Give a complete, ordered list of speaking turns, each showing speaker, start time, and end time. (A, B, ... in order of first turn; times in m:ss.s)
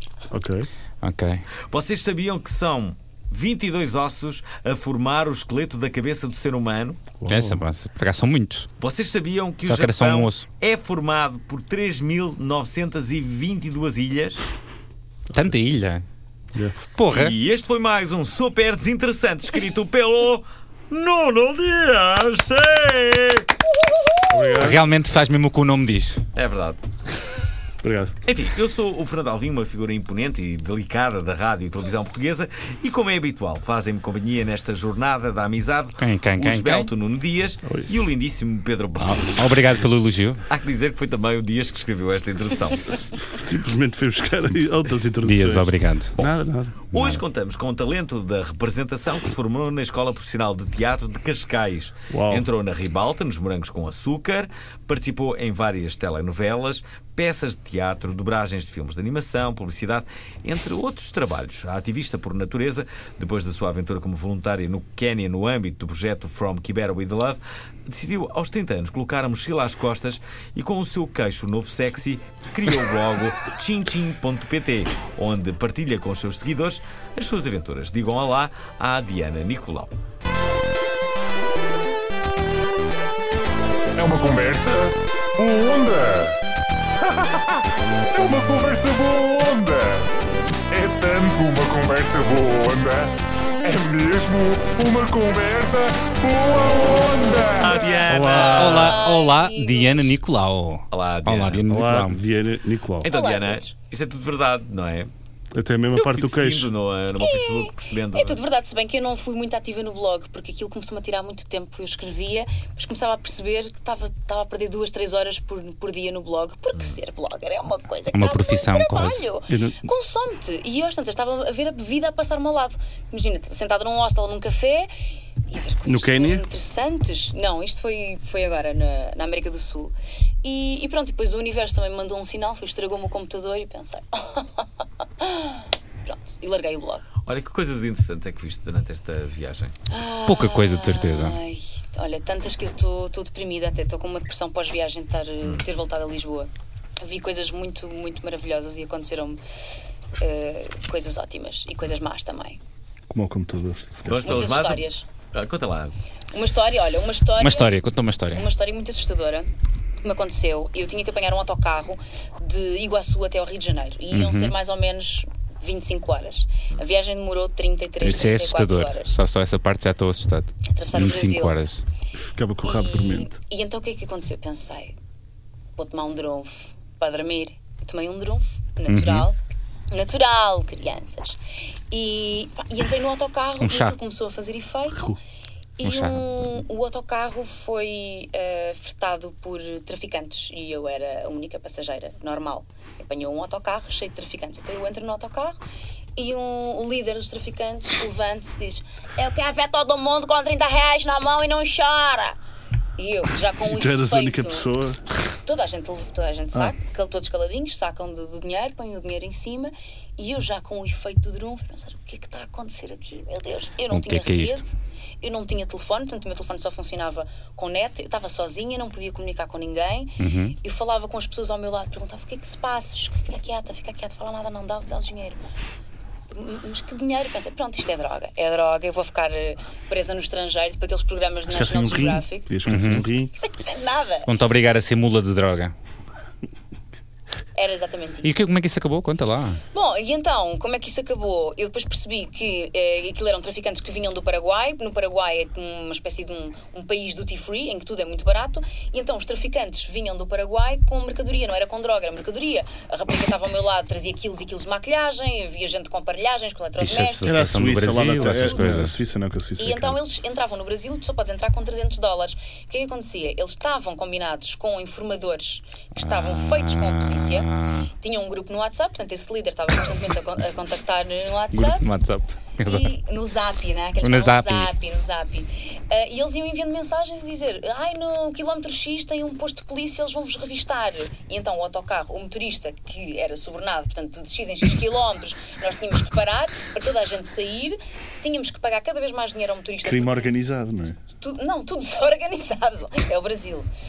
0:00.3-0:00.7 A
0:01.0-0:01.5 B
0:01.7-0:07.0 C
0:07.2-0:07.6 A
0:07.3-0:08.7 B
0:08.8-0:14.4 C
0:09.6-0:10.4 B
0:15.3-0:16.0 B
0:17.0-0:17.4 B
0:17.1-0:23.5 C
0:24.3-0:24.8 A
0:24.5-0:26.2 B
0:26.4-0:26.8 C
0:27.8-0:28.2 A
0:28.2-0:39.4 C
0:36.0-0:36.9 B
0:39.0-0:40.4 B
0:40.5-0:43.0 C
0:43.3-0:46.8 A
0:45.2-0:46.2 B
0:46.9-0:47.2 B
0:46.9-1:20.0 C
0:52.1-0:52.5 A
1:24.0-1:26.4 D
1:27.0-1:30.1 D
1:30.7-1:33.1 D
1:33.6-1:38.1 D
1:37.6-1:39.0 C
1:38.1-1:38.9 A
1:38.2-1:40.1 E
1:38.5-1:42.2 B
1:40.9-1:41.6 C
1:41.7-1:43.1 A
1:43.0-1:45.1 C
1:43.0-1:43.7 E
1:45.5-1:46.7 A
1:45.9-1:48.4 C
1:47.2-2:04.9 E
1:58.1-1:59.3 B
1:59.5-1:59.8 A
2:05.5-2:14.7 E
2:05.9-2:06.4 A
2:15.2-2:17.0 E
2:17.3-2:19.8 C
2:19.9-2:26.5 E
2:20.3-2:21.4 B
2:27.0-2:29.4 E
2:30.2-2:32.6 E
2:33.1-2:34.5 A
2:34.1-2:35.9 C
2:34.2-2:35.1 E
2:36.3-2:37.8 E
2:37.4-2:38.5 B
2:38.3-2:39.5 E
2:40.0-2:49.1 E
2:44.1-2:44.5 B
2:48.0-2:51.8 B
2:50.7-2:51.6 E
2:52.1-2:53.4 A
2:52.6-2:55.0 E
2:55.8-2:59.4 E
2:58.9-2:59.3 B
2:59.9-3:01.4 E
3:01.9-3:05.2 E
3:03.6-3:04.0 B
3:04.9-3:05.2 A
3:05.8-3:15.6 E
3:05.8-3:06.2 B
3:16.2-3:22.4 E
3:23.0-3:24.7 E
3:23.7-3:25.0 A
3:25.4-3:34.7 E
3:33.9-3:34.6 B
3:35.2-3:45.4 E
3:40.2-3:40.6 B
3:46.3-3:54.3 E
3:51.5-3:53.3 A
3:52.7-3:53.1 B
3:54.3-3:55.7 B
3:57.6-3:58.4 E
3:58.2-3:59.6 B
3:59.7-4:18.6 E
4:16.8-4:18.9 B
4:17.2-4:20.0 A
4:19.6-4:31.8 E
4:26.0-4:27.9 B
4:31.5-4:32.9 B
4:32.6-4:50.3 E
4:34.0-4:34.7 B
4:49.8-4:51.0 A
4:51.2-4:53.7 E